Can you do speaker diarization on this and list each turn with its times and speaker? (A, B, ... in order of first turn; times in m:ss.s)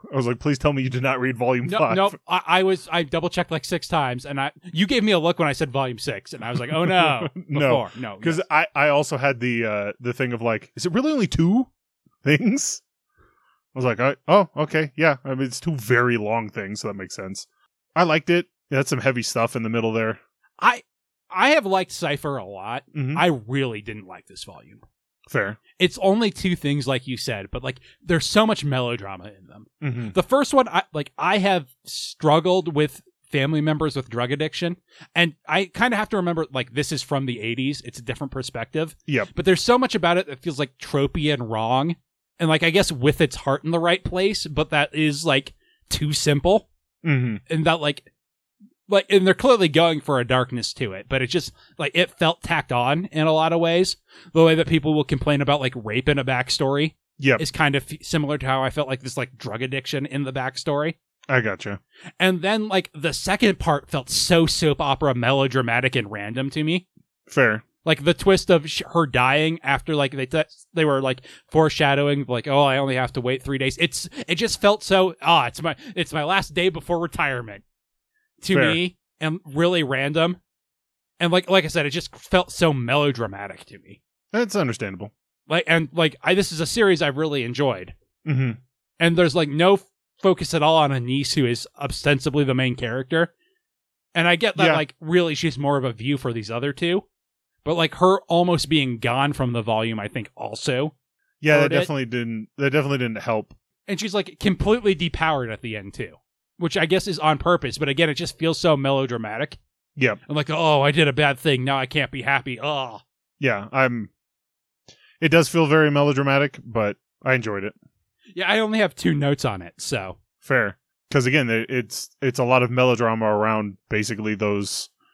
0:00.1-0:02.2 A
0:01.6-0:08.4 B
0:06.7-0:11.7 A
0:12.2-0:12.8 A
0:13.7-0:20.2 A
0:20.6-0:24.8 B
0:22.9-0:23.2 A
0:25.3-0:25.6 A
0:25.8-0:46.7 B
0:29.8-0:30.1 A
0:47.0-0:47.4 A
0:47.5-0:48.1 B
0:48.9-1:01.0 B
1:01.3-1:01.8 A
1:02.2-1:06.8 B
1:07.3-1:07.6 A
1:07.8-1:17.6 B
1:18.4-1:20.4 B
1:18.5-1:18.8 A
1:21.2-1:24.0 B
1:24.3-1:25.1 A
1:25.5-1:27.9 B
1:28.2-1:28.6 A
1:29.0-1:33.3 B
1:34.1-1:37.0 B
1:34.6-1:34.8 A
1:37.6-1:40.9 B
1:41.4-1:43.5 A
1:41.5-1:41.9 B
1:43.9-1:49.6 B
1:50.3-1:53.0 B
1:53.4-1:54.1 A
1:55.2-1:57.7 A
1:58.4-2:00.2 B
2:00.4-2:04.9 A